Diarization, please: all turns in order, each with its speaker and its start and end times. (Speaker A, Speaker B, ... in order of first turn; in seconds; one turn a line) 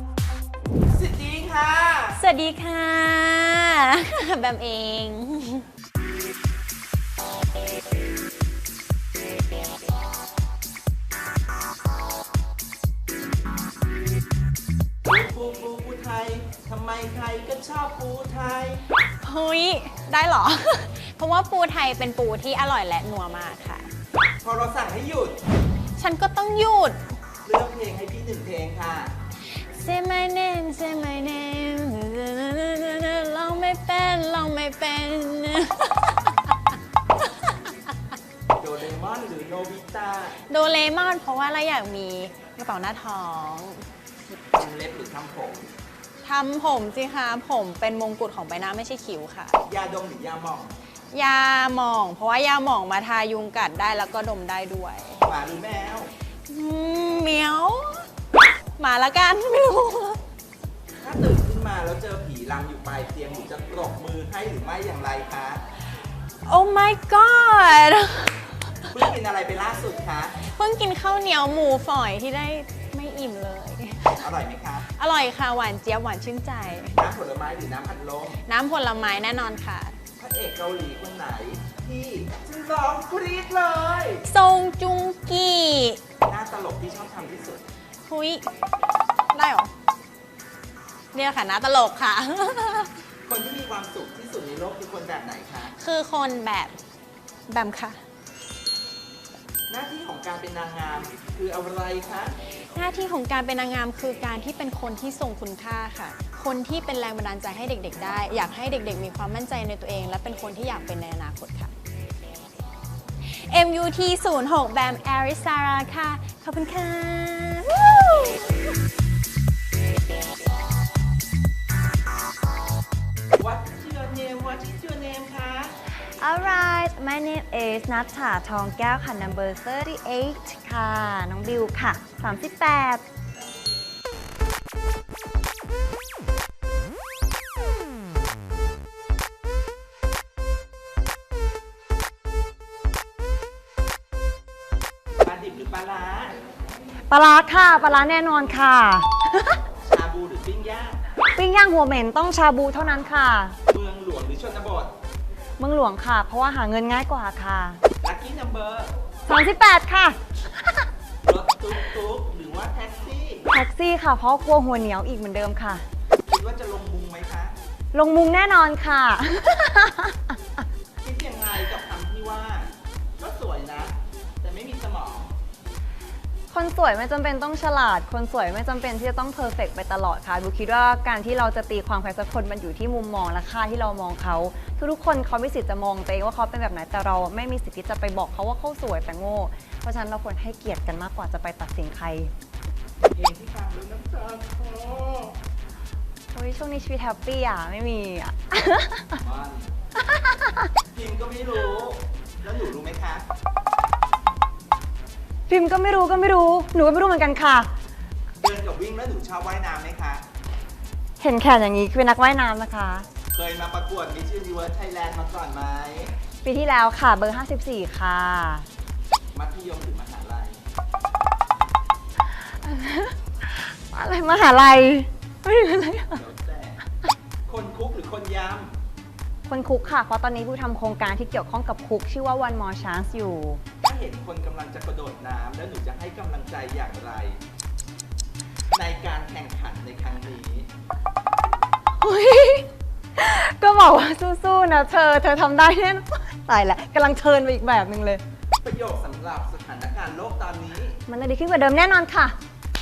Speaker A: 0.9-2.2
Speaker B: 2.1-5.7
Speaker A: 15.0-18.8
Speaker B: 19.2-23.9
Speaker A: 24.4-25.4
Speaker B: 26.0-27.0
Speaker A: 27.4-29.1
Speaker B: 29.7-36.3
Speaker A: 38.6-40.4
Speaker B: 40.5-43.8
Speaker A: 44.5-45.7
Speaker B: 46.2-49.6
Speaker A: 49.6-50.7
Speaker B: 51.1-55.2
Speaker A: 55.2-56.1
Speaker B: 56.5-58.1
Speaker B: 58.8-60.2
Speaker A: 61.0-65.6
Speaker B: 66.4-68.8
Speaker A: 68.9-70.3
Speaker B: 70.4-74.2
Speaker A: 74.1-74.9
Speaker B: 74.9-76.9
Speaker A: 76.9-78.4
Speaker B: 78.5-79.9
Speaker A: 80.2-84.2
Speaker B: 84.2-86.0
Speaker A: 86.3-87.6
Speaker B: 88.1-88.5
Speaker B: 89.3-89.7
Speaker B: 91.1-92.9
Speaker A: 93.2-95.7
Speaker B: 95.8-96.8
Speaker B: 97.5-98.0
Speaker A: 99.7-102.3
Speaker B: 102.7-111.7
Speaker B: 113.2-118.2
Speaker A: 123.4-125.7
Speaker C: 126.2-133.0
Speaker A: 145.2-146.4
Speaker C: 147.1-149.6
Speaker A: 149.8-151.0
Speaker C: 151.3-153.6
Speaker A: 153.7-154.9
Speaker C: 155.6-157.8
Speaker A: 158.0-158.9
Speaker C: 159.3-160.8
Speaker A: 161.2-163.5
Speaker C: 163.5-165.8
Speaker A: 166.2-167.5
Speaker C: 167.9-170.6
Speaker A: 171.0-175.3
Speaker C: 176.5-192.3
Speaker A: 193.0-195.3
Speaker C: 196.3-199.2
Speaker A: 199.2-199.7
Speaker C: 200.0-200.7
Speaker A: 200.9-203.2
Speaker C: 205.5-207.7
Speaker A: 208.4-210.2
Speaker C: 211.2-213.1
Speaker A: 213.3-216.1
Speaker C: 216.4-218.7
Speaker A: 219.3-220.6
Speaker C: 222.5-226.2
Speaker A: 226.1-226.8
Speaker A: 227.4-228.7
Speaker C: 229.5-233.6
Speaker A: 233.8-237.4
Speaker A: 238.7-240.7
Speaker C: 242.0-248.2
Speaker A: 248.6-251.0
Speaker C: 251.1-252.3